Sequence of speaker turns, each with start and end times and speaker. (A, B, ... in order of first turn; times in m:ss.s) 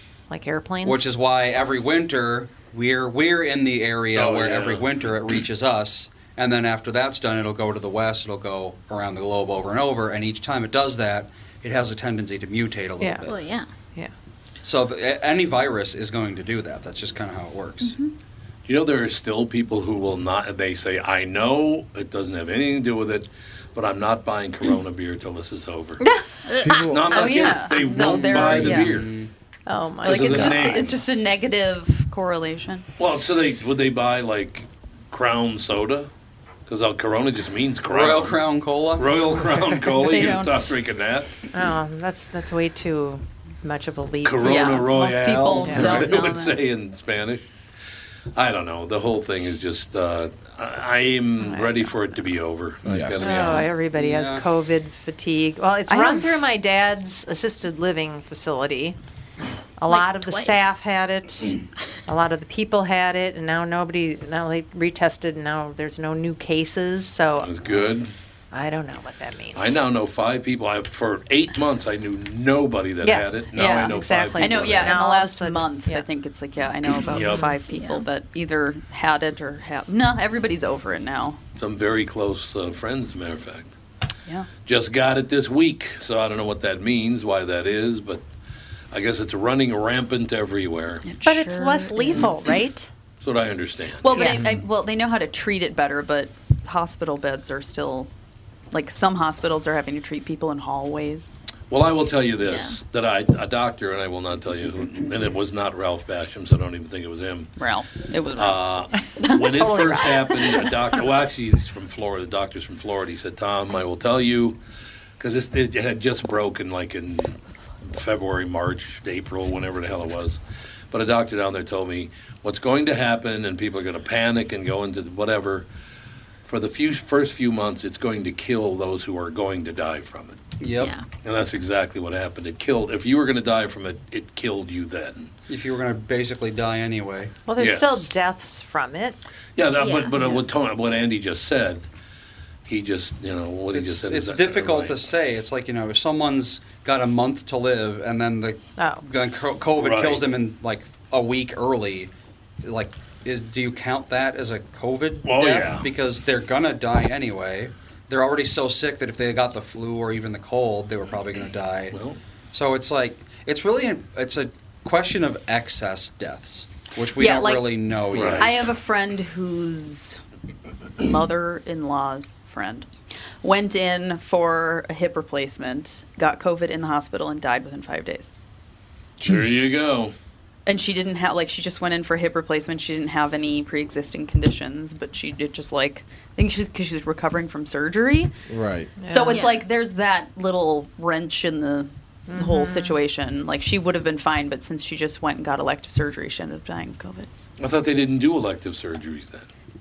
0:00.3-0:01.0 A
0:00.8-0:13.4 B
0:04.1-0:05.1 C
0:13.0-0:13.3 A
0:13.2-0:13.7 D
0:14.6-0:17.9 B
0:18.6-0:26.0 C
0:26.5-0:26.9 D
0:26.6-0:27.1 E
0:26.9-0:29.1 C
0:27.1-0:28.9 F
0:27.9-0:29.3 B
0:29.7-0:30.8 A
0:30.0-0:32.8 F
0:30.0-0:31.0 C
0:33.0-0:36.1 C
0:36.7-0:38.4 C
0:37.8-0:39.3 B
0:39.0-0:41.3 C
0:39.9-0:40.7 F
0:41.5-0:44.9 A
0:44.2-0:47.5 C
0:44.4-0:46.6 F
0:45.6-0:45.9 A
0:48.3-0:53.7 C
0:51.4-0:51.9 A
0:52.8-0:53.4 E
0:53.2-0:59.0 A
0:53.9-0:54.4 B
0:55.9-0:56.3 F
0:59.8-1:07.5 A
0:59.9-1:00.7 D
1:07.4-1:08.1 C
1:08.5-1:09.8 A
1:09.6-1:15.0 C
1:13.0-1:16.0 A
1:13.5-1:21.4 F
1:17.1-1:17.4 C
1:17.1-1:17.5 A
1:17.6-1:18.0 D
1:21.6-1:23.8 C
1:24.6-1:28.2 C
1:28.9-1:31.0 C
1:31.0-1:32.6 F
1:31.2-1:32.9 A
1:33.2-1:34.1 C
1:34.0-1:38.1 F
1:34.1-1:34.4 A
1:34.2-1:34.6 E
1:38.7-1:41.3 F
1:41.7-1:47.5 C
1:42.4-1:42.8 D
1:47.6-1:48.7 F
1:48.4-1:54.6 C
1:49.2-1:50.6 F
1:49.4-1:50.1 A
1:55.2-2:05.7 C
2:06.4-2:10.4 C
2:10.6-2:10.9 B
2:10.7-2:11.0 D
2:11.2-2:15.3 C
2:15.5-2:17.3 B
2:17.5-2:19.2 A
2:17.6-2:18.0 C
2:19.6-2:21.8 C
2:19.8-2:20.4 D
2:22.6-2:25.1 C
2:23.7-2:32.1 B
2:28.8-2:29.0 A
2:29.8-2:30.2 C
2:32.6-2:42.0 B
2:35.2-2:35.9 C
2:41.9-2:42.2 C
2:42.5-2:48.7 B
2:47.2-2:47.7 F
2:48.1-2:48.5 C
2:48.4-2:50.2 F
2:51.0-2:52.9 F
2:53.4-2:58.3 F
2:59.2-2:59.8 E
2:59.2-3:00.1 C
3:00.6-3:08.3 F
3:08.5-3:08.9 E
3:09.0-3:09.4 A
3:09.0-3:17.3 F
3:09.3-3:09.6 D
3:12.3-3:13.0 A
3:17.6-3:19.5 C